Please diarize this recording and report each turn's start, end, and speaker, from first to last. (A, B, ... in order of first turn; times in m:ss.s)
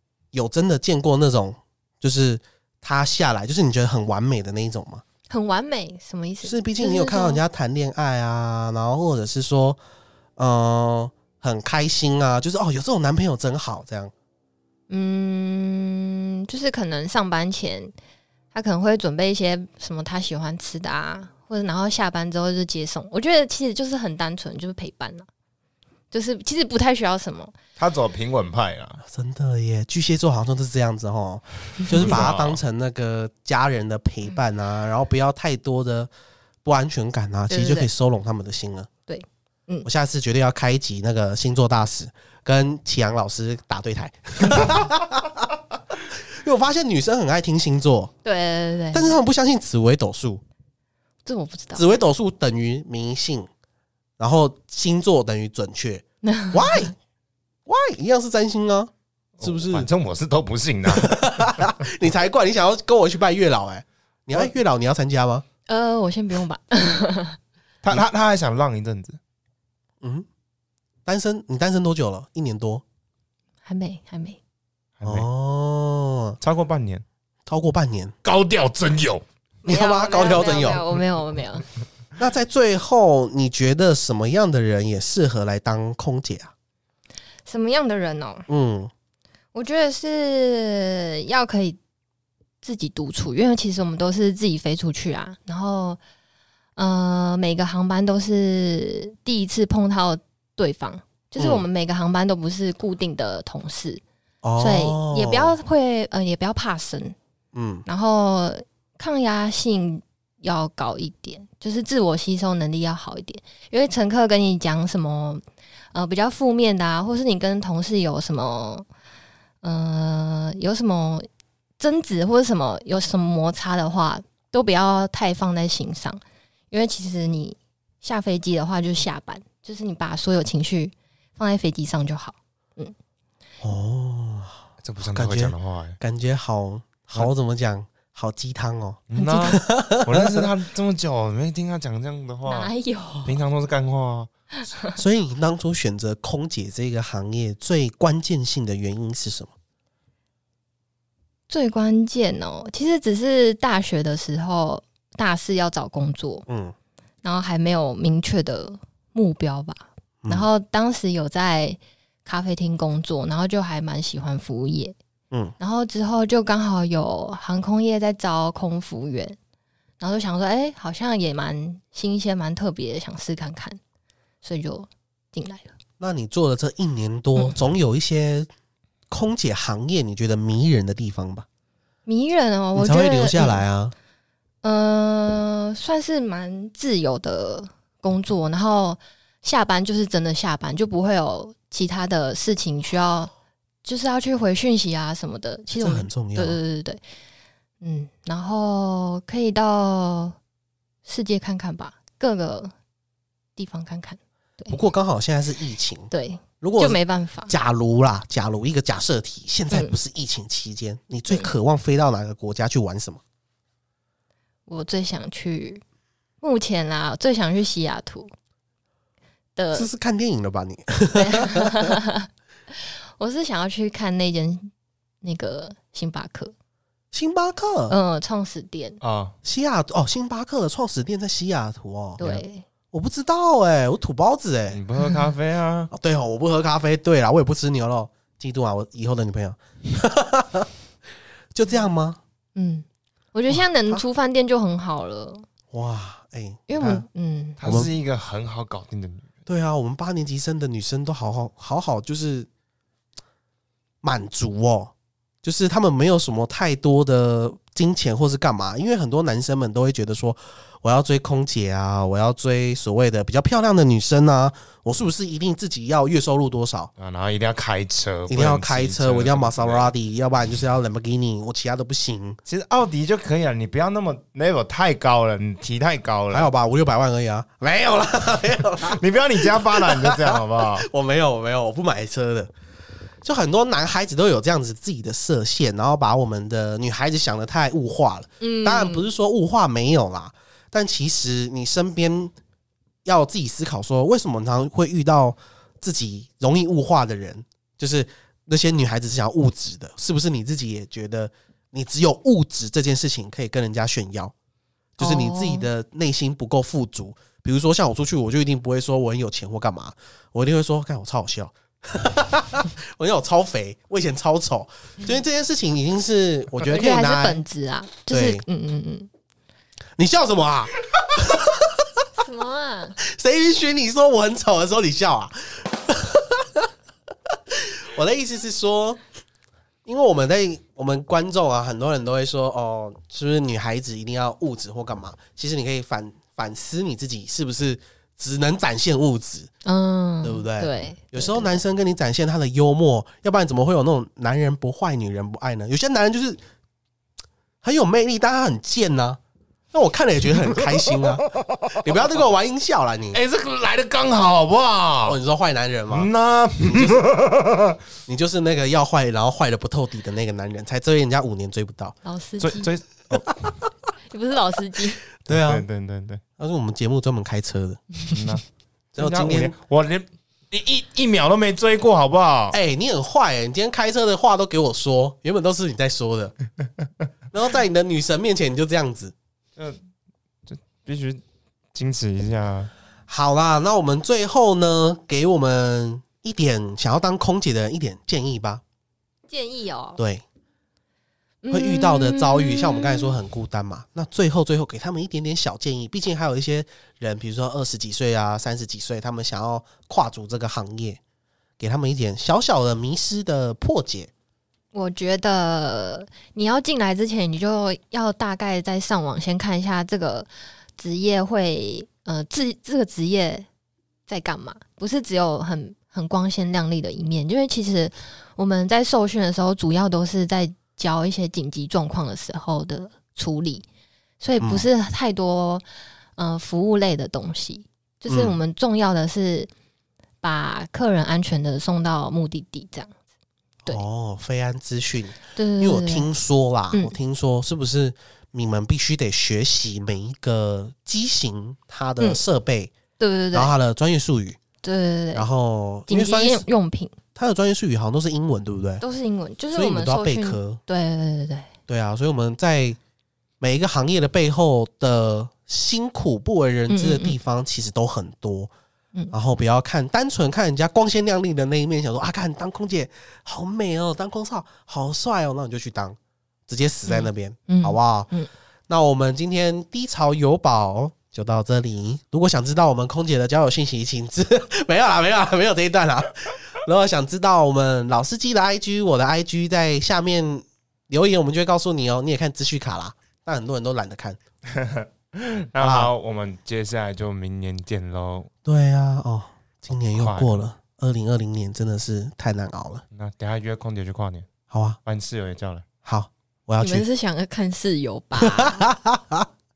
0:00.3-0:05.0 A
0:05.3-0:07.4 B
0:06.4-0:09.8 A
0:10.4-0:14.1 A
0:14.9-0:17.9 B
0:18.5-0:25.3 B
0:26.1-0:27.6 B
0:27.8-0:29.0 C
0:29.0-0:36.1 A
0:31.9-0:32.6 C
0:36.6-0:38.9 A
0:37.5-0:37.9 B
0:39.1-0:39.9 B
0:39.8-0:45.5 A
0:46.4-0:48.1 A
0:48.2-0:49.2 B
0:48.9-0:50.4 A
0:51.2-0:52.0 B
0:51.8-0:53.5 A
0:54.2-0:56.9 A
0:56.2-0:56.9 B
0:57.7-0:58.9 A
0:59.4-1:01.7 C
0:59.4-0:59.9 A
1:00.9-1:05.4 A
1:05.7-1:07.4 B
1:07.8-1:09.2 C
1:11.1-1:12.8 A
1:13.6-1:14.4 B
1:15.0-1:15.3 C
1:15.0-1:16.4 A
1:16.4-1:17.0 C
1:17.5-1:18.1 A
1:18.2-1:19.2 C
1:19.6-1:21.6 B
1:19.7-1:20.8 A
1:22.2-1:26.5 A
1:27.5-1:28.5 B
1:28.5-1:28.9 A
1:29.5-1:31.8 B
1:32.6-1:36.0 B
1:36.8-1:44.0 B
1:41.4-1:41.6 A
1:44.4-1:45.6 A
1:44.6-1:47.2 B
1:47.6-1:47.8 A
1:47.9-1:55.4 B
1:55.9-1:58.9 B
1:59.6-2:01.3 B
2:01.8-2:13.0 B
2:13.6-2:20.5 A
2:14.8-2:16.0 C
2:19.1-2:22.7 C
2:19.2-2:19.6 B
2:22.4-2:23.4 B
2:23.2-2:24.3 C
2:24.6-2:25.0 B
2:25.0-2:29.5 A
2:31.5-2:36.4 B
2:36.5-2:36.7 A
2:37.2-2:45.0 B
2:45.6-2:49.4 B
2:50.0-2:53.8 B
2:54.4-2:55.7 B
2:56.0-2:58.5 A
2:59.1-3:01.5 A
3:02.1-3:03.6 B
3:02.8-3:03.9 A
3:04.6-3:13.3 B
3:13.8-3:17.0 B
3:15.8-3:16.6 A
3:17.8-3:20.4 B
3:21.0-3:22.7 B
3:23.6-3:24.8 B
3:24.7-3:26.1 A
3:26.1-3:27.5 B
3:26.6-3:33.2 A
3:31.3-3:31.5 B
3:34.7-3:35.8 B
3:36.4-3:38.3 B
3:39.6-3:39.9 B
3:39.7-3:41.9 A
3:41.1-3:44.7 B
3:45.2-3:46.5 B
3:47.1-3:48.0 A
3:47.9-3:49.0 B
3:49.0-3:49.4 C
3:49.4-3:52.4 A
3:52.2-3:52.6 B
3:52.9-3:54.8 A
3:54.7-3:55.9 C
3:55.9-4:00.7 A
4:01.6-4:02.2 A
4:02.6-4:05.5 B
4:03.5-4:04.0 A
4:05.7-4:07.0 A
4:06.7-4:07.6 B
4:07.6-4:09.3 C
4:07.6-4:07.9 A
4:09.5-4:12.5 A
4:14.0-4:26.9 A
4:27.0-4:29.9 C
4:28.3-4:32.4 A
4:32.5-4:36.5 C
4:36.3-4:42.5 A
4:38.9-4:40.9 C
4:43.2-4:52.3 A
4:48.4-4:49.1 B
4:53.0-5:04.3 A
5:05.0-5:17.4 A
5:05.0-5:05.7 B
5:16.6-5:19.1 B
5:18.1-5:18.4 A
5:20.0-5:22.1 A
5:22.2-5:23.0 B
5:23.0-5:26.7 A
5:27.6-5:29.0 A
5:29.8-5:39.5 A
5:39.6-5:41.6 B
5:40.2-5:46.4 A
5:47.6-5:49.2 A
5:49.7-5:53.2 A
5:50.6-5:51.7 C
5:53.1-5:55.2 C
5:55.1-5:57.1 A
5:55.9-5:57.8 C
5:58.1-6:02.0 A
6:02.0-6:02.7 B
6:02.4-6:03.4 C
6:04.1-6:05.0 B
6:05.2-6:05.6 A
6:05.3-6:06.2 C
6:06.4-6:07.8 A
6:08.1-6:08.4 C
6:09.0-6:09.6 A
6:09.0-6:12.6 C
6:12.5-6:16.4 A
6:17.3-6:19.1 A
6:20.5-6:21.2 C
6:21.7-6:22.7 C
6:23.1-6:28.6 A
6:29.3-6:30.0 B
6:30.0-6:30.2 A
6:31.4-6:33.2 B
6:31.5-6:41.0 A
6:41.6-6:44.1 A
6:44.7-6:53.5 B
6:54.1-7:03.6 B
7:04.2-7:05.6 B
7:04.4-7:04.7 A
7:06.2-7:09.5 B
7:08.1-7:08.4 A
7:10.2-7:12.9 B
7:13.7-7:22.7 A
7:15.4-7:16.1 B
7:23.0-7:23.5 B
7:23.3-7:24.4 A
7:24.6-7:25.3 B
7:25.2-7:26.5 A
7:25.9-7:27.0 B
7:27.2-7:28.8 A
7:28.8-7:31.5 B
7:29.5-7:30.6 A
7:31.7-7:32.8 A
7:33.4-7:38.5 A
7:36.7-7:37.2 B
7:39.1-7:48.1 A
7:46.9-7:48.3 B
7:48.7-8:04.2 A
8:04.5-8:08.3 C
8:05.6-8:05.9 A
8:08.4-8:12.8 A
8:10.0-8:10.4 C
8:12.9-8:14.3 C
8:14.5-8:14.8 A
8:14.8-8:15.6 C
8:15.8-8:16.9 A
8:16.6-8:18.6 B
8:18.2-8:19.3 A